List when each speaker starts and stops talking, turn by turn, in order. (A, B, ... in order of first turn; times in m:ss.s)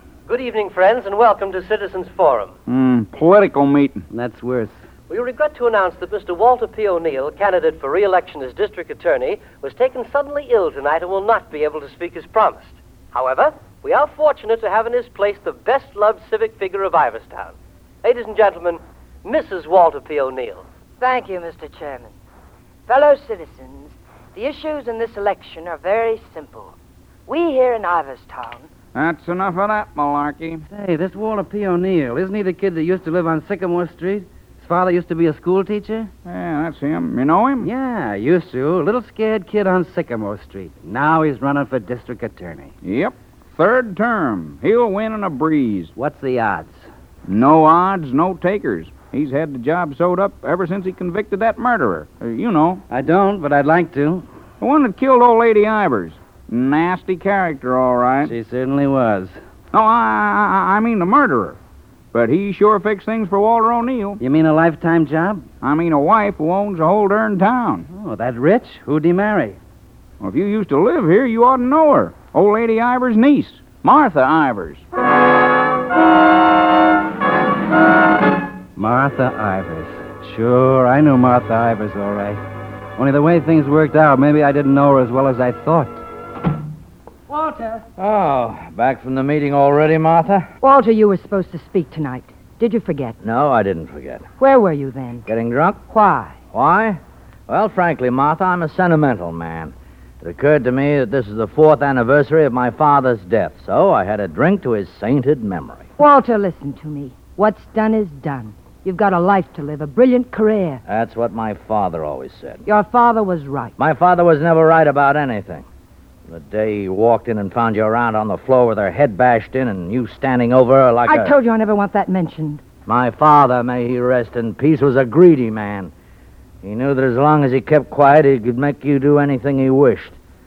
0:00.3-0:02.5 A
0:02.7-0:04.0 B
0:04.1-0:04.8 C
0:05.1-0:20.6 A
0:21.0-0:22.1 D
0:22.9-0:26.8 D
0:27.3-0:28.7 D
0:28.9-0:30.6 B
0:30.7-0:36.1 C
0:36.2-0:37.7 B
0:37.6-0:42.7 C
0:42.8-0:45.9 B
0:46.0-0:46.9 C
0:47.2-0:52.8 B
0:52.9-0:54.2 C
0:54.6-0:58.3 B
0:58.2-0:59.4 C
0:59.7-1:01.6 B
1:02.1-1:04.2 B
1:04.2-1:05.5 C
1:05.6-1:07.9 B
1:07.9-1:09.6 C
1:10.2-1:14.8 B
1:18.8-1:22.4 C
1:23.0-1:26.0 C
1:27.3-1:27.8 C
1:28.0-1:30.5 E
1:30.6-1:33.2 D
1:33.2-1:34.2 E
1:34.4-1:35.2 D
1:35.2-1:35.8 E
1:35.9-1:36.4 D
1:36.5-1:45.9 E
1:46.0-1:50.8 D
1:50.9-1:52.6 E
1:52.7-1:53.7 D
1:53.8-1:55.7 E
1:56.3-2:01.4 E
2:01.1-2:02.6 D
2:02.9-2:05.9 E
2:06.6-2:10.2 E